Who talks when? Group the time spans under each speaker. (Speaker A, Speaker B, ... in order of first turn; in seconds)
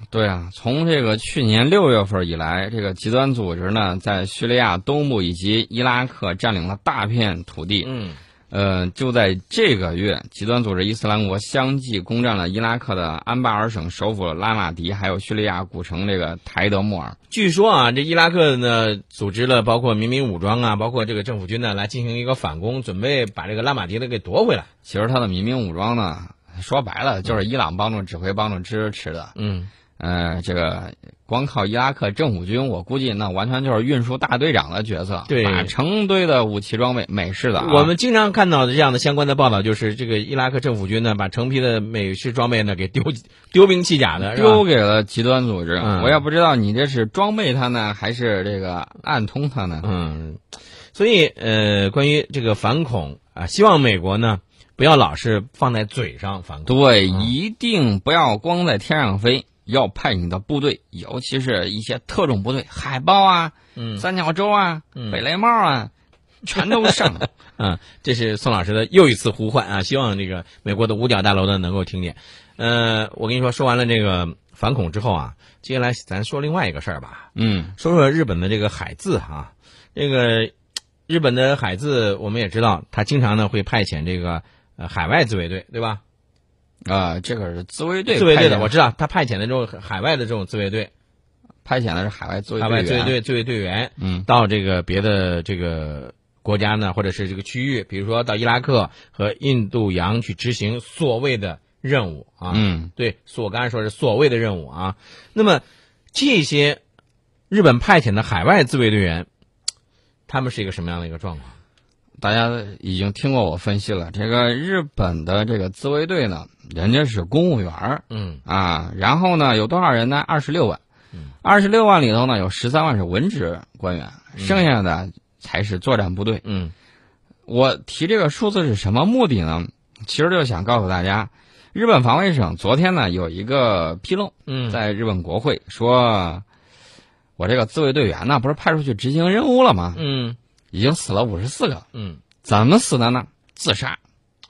Speaker A: 0.1-7.9, 8.5-17.2, 24.9-29.3, 30.0-37.9, 44.2-49.9, 56.7-65.9, 66.4-67.3, 77.3-77.8, 86.9-88.7, 91.7-93.2, 94.0-94.3, 102.5-102.9, 112.2-120.8, 121.4-126.4, 127.5-136.4, 137.4-140.0, 140.7-141.8, 142.4-144.0
Speaker B: 7.8-8.2, 17.3-24.7, 29.4-29.7, 35.3-35.7, 37.6-44.6, 45.8-46.2, 49.8-57.3, 63.8-64.0, 65.0-65.2, 67.6-80.5, 81.1-86.0, 88.1-90.9, 92.6-106.8, 107.5-109.3, 110.3-111.6, 118.1-118.4, 124.4-124.6, 126.4-126.7, 134.5-134.8, 139.9-140.4, 141.9-142.2